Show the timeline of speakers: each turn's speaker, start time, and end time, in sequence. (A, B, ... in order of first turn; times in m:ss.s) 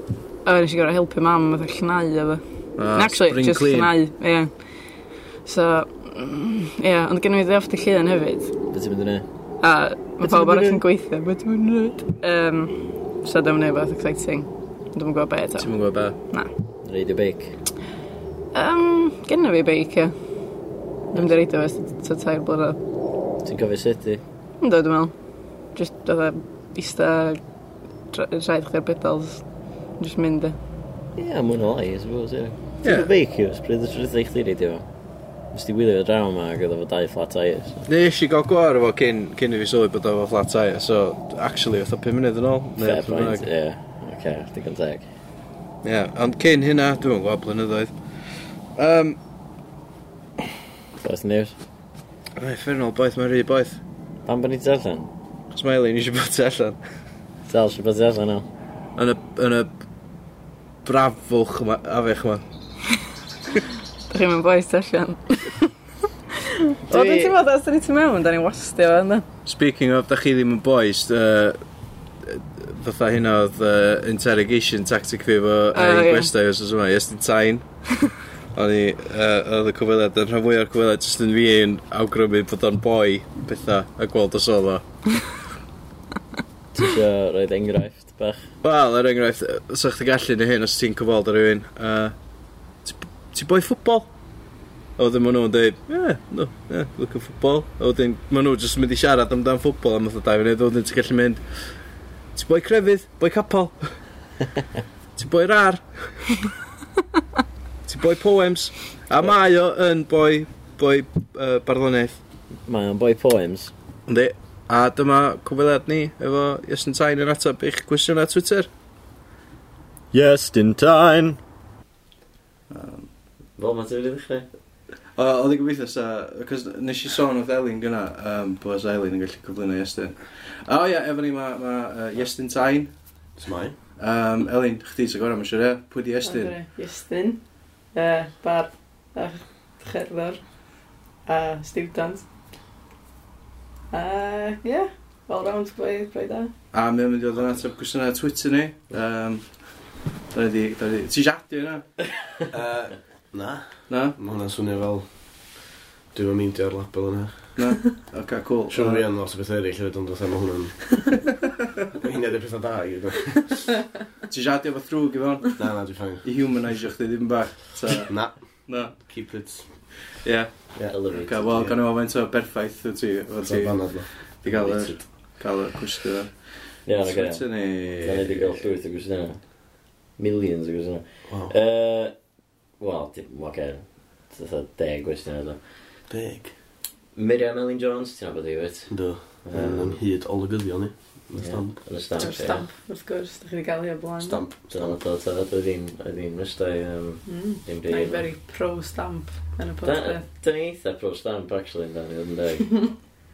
0:00.4-0:08.5 A
0:02.8-0:03.9 B
0:08.7-0:09.2 C
0:09.6-0:16.5 A
0:10.2-0:10.8 B
0:15.6-0:16.2 B
0:16.8-0:17.5 C
0:18.5-0:20.1 A
0:21.1-0:22.8 A
0:23.4-0:24.2 C
0:24.6-0:25.1 A
0:25.7-0:27.4 A
0:28.1-0:29.4 A
0:30.0-0:30.6 A
0:31.2-0:34.9 C
0:32.8-0:33.1 B
0:35.5-0:37.8 C
0:37.8-0:43.5 B
0:42.8-0:45.0 C
0:45.8-0:49.2 B
0:51.0-0:51.5 C
0:52.4-0:53.8 B
0:54.2-0:55.1 C
0:55.5-0:56.8 B
0:57.5-0:58.4 C
0:59.0-0:59.7 B
1:00.8-1:02.4 B
1:04.1-1:05.7 A
1:06.9-1:09.2 A
1:06.9-1:07.3 C
1:09.4-1:11.6 B
1:12.2-1:24.8 B
1:15.7-1:16.3 A
1:26.7-1:28.5 C
1:28.6-1:32.1 B
1:32.8-1:34.1 B
1:35.0-1:41.8 B
1:42.3-1:44.0 B
1:45.2-1:46.4 B
1:47.8-1:52.2 B
1:52.6-1:53.7 C
1:54.1-1:58.7 B
2:00.1-2:01.4 C
2:02.7-2:03.1 B
2:03.6-2:04.4 C
2:05.2-2:12.9 B
2:13.4-2:13.8 D
2:14.0-2:16.6 B
2:16.2-2:20.4 A
2:21.2-2:22.2 A
2:23.9-2:26.5 A
2:26.7-2:31.8 B
2:32.5-2:35.0 D
2:33.9-2:34.2 B
2:36.1-2:37.6 D
2:37.6-2:39.0 B
2:38.7-2:41.2 D
2:41.9-2:43.8 D
2:44.3-2:49.1 B
2:45.6-2:46.2 D
2:48.0-2:50.0 D
2:50.2-2:58.6 B
2:50.9-2:51.6 C
2:51.5-2:51.7 D
2:53.4-2:54.1 D
2:54.4-2:55.1 C
2:56.8-2:59.5 C
3:00.2-3:02.1 C
3:01.3-3:01.5 D
3:02.8-3:05.6 C
3:06.1-3:06.5 D
3:07.1-3:10.0 C
3:08.9-3:12.0 D
3:11.3-3:12.7 C
3:12.2-3:14.4 A
3:14.2-3:15.0 D
3:14.7-3:18.4 C
3:17.2-3:20.2 A
3:19.8-3:23.0 C